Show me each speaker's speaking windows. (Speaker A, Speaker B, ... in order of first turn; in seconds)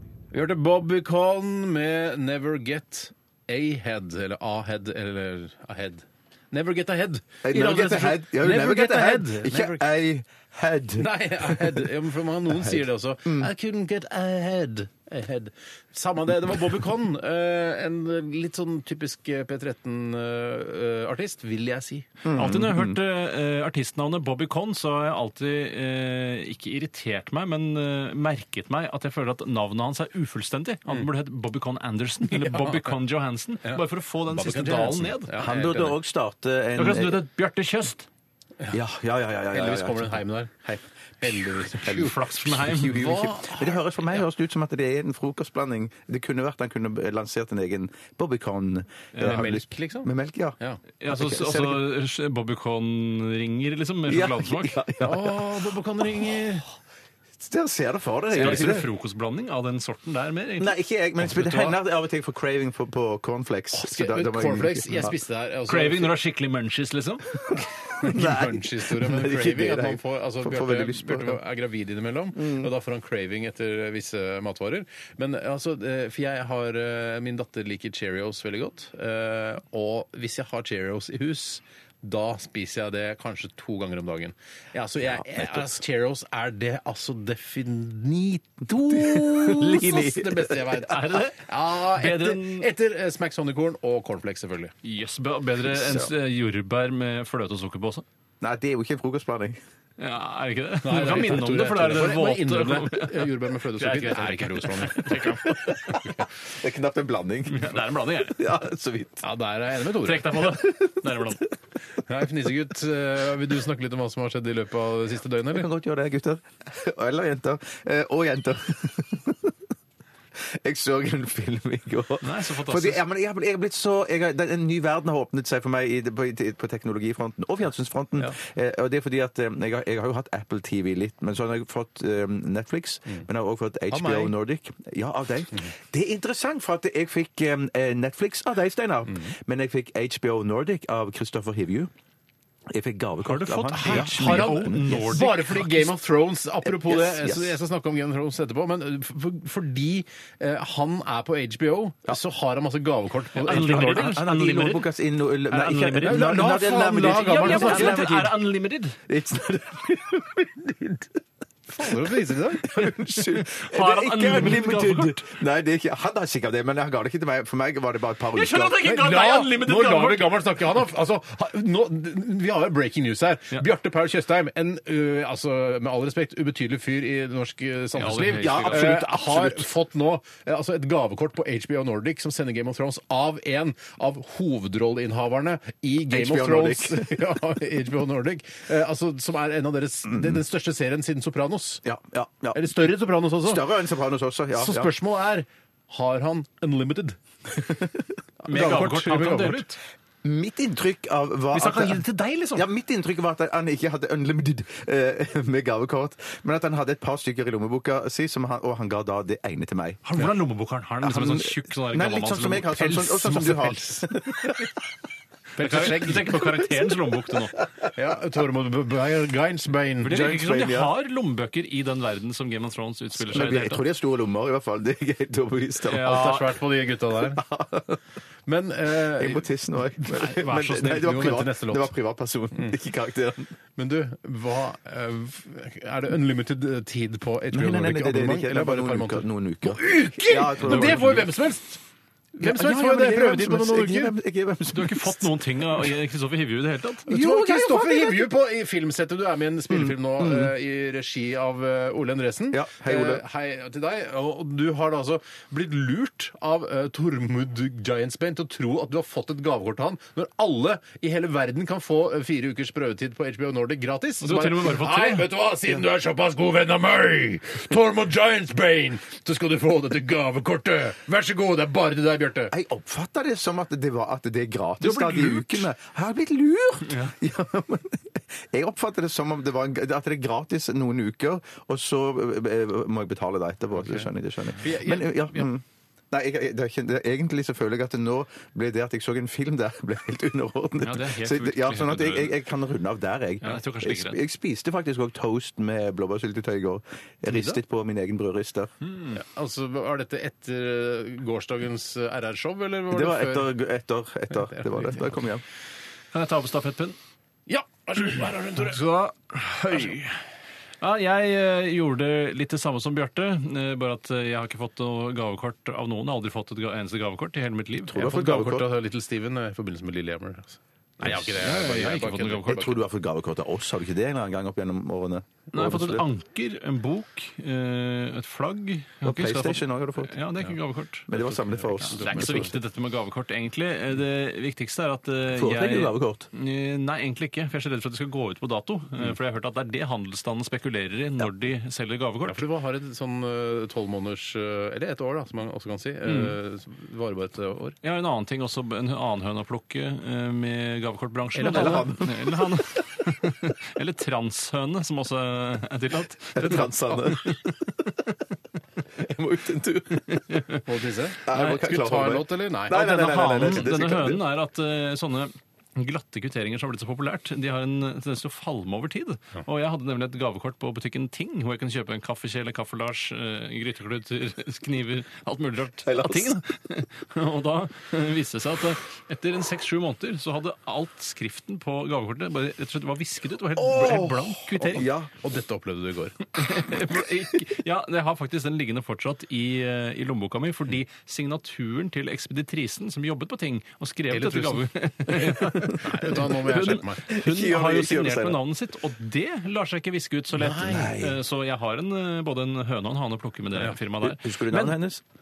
Speaker A: 0.3-9.9, 11.0-22.2, 32.5-32.8, 33.6-36.0, 39.5-42.2, 42.8-43.8, 49.2-50.8, 55.0-56.6, 63.7-66.2, 68.0-94.7, 100.8-106.2, 109.2-110.4, 112.0-115.7, 133.9-134.3, 143.7-154.2, 156.0-158.4, 161.7-162.7, 168.8-191.8, 192.5-193.7, 194.5-197.2, 198.4-199.7, 212.9-214.1, 215.6-216.6, 217.9-220.2, 226.0-227.4, 228.4-231.9, 233.8-241.8, 242.3-244.1, 247.1-272.5, 283.8-285.5, 297.3-297.6, 299.1-303.5, 304.3-305.2, 307.5-308.9, 309.6-310.1, 317.9-322.7, 331.1-332.5, 342.3-347.8, 351.3-351.9, 360.6-363.0, 385.2-386.2, 394.1-397.1, 400.4-400.9
Speaker B: 7.4-11.9, 12.5-13.5, 22.2-23.0, 35.4-37.2, 38.7-40.2, 41.6-50.6, 51.1-51.9, 54.1-55.5, 57.4-58.9, 60.6-65.1, 68.0-71.4, 72.3-72.7, 85.0-85.7, 88.9-90.8, 95.7-96.1, 98.4-99.6, 106.4-109.3, 110.5-111.3, 115.5-119.5, 120.4-141.9, 142.7-145.2, 146.7-147.5, 153.4-158.0, 159.1-161.2, 162.6-168.8, 178.3-179.7, 186.1-187.3, 190.1-190.4, 191.8-192.8, 193.4-194.9, 197.5-198.1, 200.2-210.0, 211.0-214.7, 220.1-220.9, 223.1-226.4, 227.3-228.0, 229.1-233.5, 237.5-241.3, 242.4-245.9, 247.1-248.3, 249.7-250.5, 252.5-253.2, 272.5-298.7, 302.9-305.4, 317.9-318.7, 322.4-326.1, 329.0-330.2, 331.1-332.6, 335.3-336.3, 351.4-352.6, 356.3-357.4, 358.9-360.4, 361.2-364.2, 375.8-376.4, 383.6-385.1, 397.1-398.4, 400.6-401.2, 404.0-405.0
Speaker C: 22.3-35.4, 36.8-38.1, 41.8-43.2, 49.1-49.5, 51.0-54.8, 58.3-61.8, 65.7-67.6, 90.8-92.7, 94.8-98.0, 100.0-106.1, 107.5-108.5, 109.9-111.5, 122.2-123.0, 143.2-145.9, 153.4-154.9, 155.4-159.0, 162.7-165.2, 168.3-170.7, 177.9-179.0, 198.5-199.8, 201.5-202.7, 210.1-213.3, 215.6-217.6, 220.0-223.8, 225.9-226.6, 230.1-231.4, 240.7-241.2, 244.7-247.1, 264.2-265.3, 274.8-275.6, 276.9-277.1, 290.8-292.4, 293.4-294.2, 298.8-299.2, 306.1-307.0, 308.6-310.0, 310.8-317.9, 321.1-322.7, 325.5-331.1, 331.8-342.4, 346.1-346.4, 347.8-357.6, 360.1-360.6, 362.7-384.9, 386.3-404.8